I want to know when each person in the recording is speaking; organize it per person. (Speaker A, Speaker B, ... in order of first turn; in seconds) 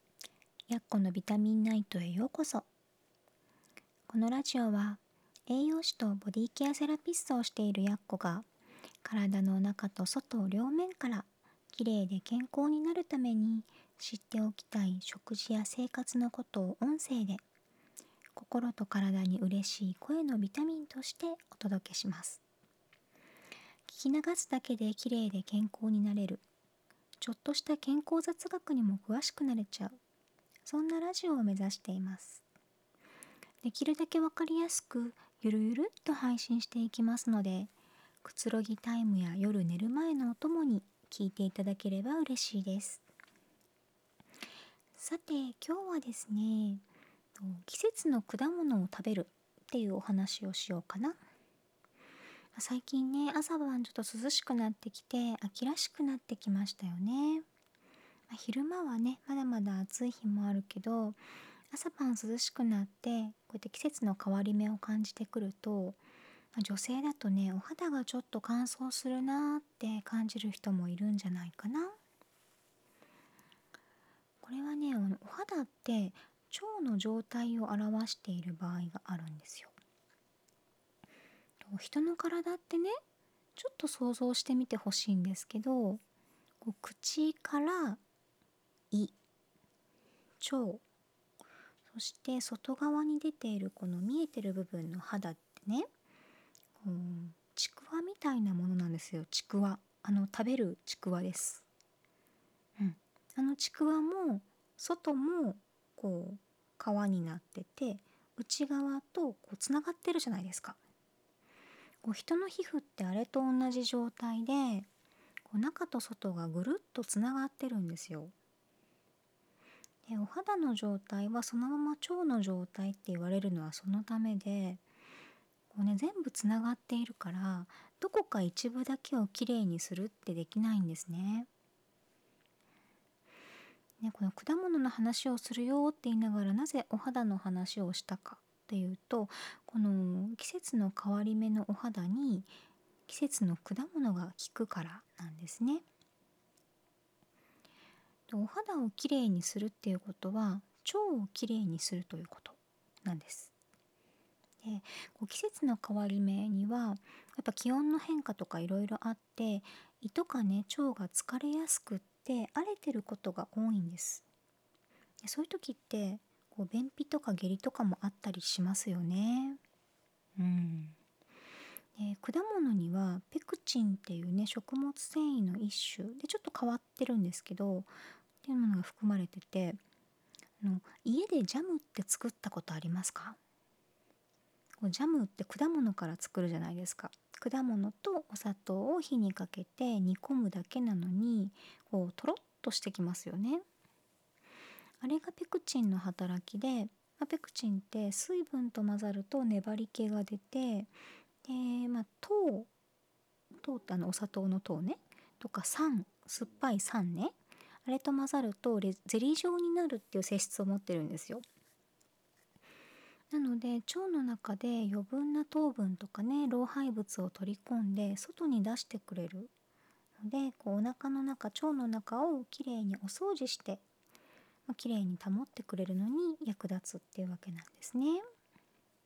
Speaker A: 0.7-2.7, 4.1-8.4, 9.0-17.4, 18.4-22.4, 23.9-26.4, 27.2-30.0, 30.6-32.4, 33.6-37.7, 38.2-43.0, 45.0-46.8, 47.4-51.2, 52.5-57.5, 58.3-61.2, 61.7-66.0, 66.5-72.0, 74.4-79.7, 81.6-83.0, 83.5-86.0, 86.6-88.0, 90.4-90.8, 91.9-95.9, 96.8-101.7, 102.8-110.8, 112.0-114.9, 115.5-118.3, 120.0-124.8, 125.7-131.5, 134.0-142.6, 143.1-145.8, 148.3-153.5, 154.6-164.2, 165.2-169.6, 170.4-170.9, 172.0-177.9, 178.4-179.8, 180.6-183.4, 184.8-193.6, 195.0-200.9, 201.4-202.7, 203.6-211.4, 213.3-219.5, 220.2-223.8, 224.7-228.2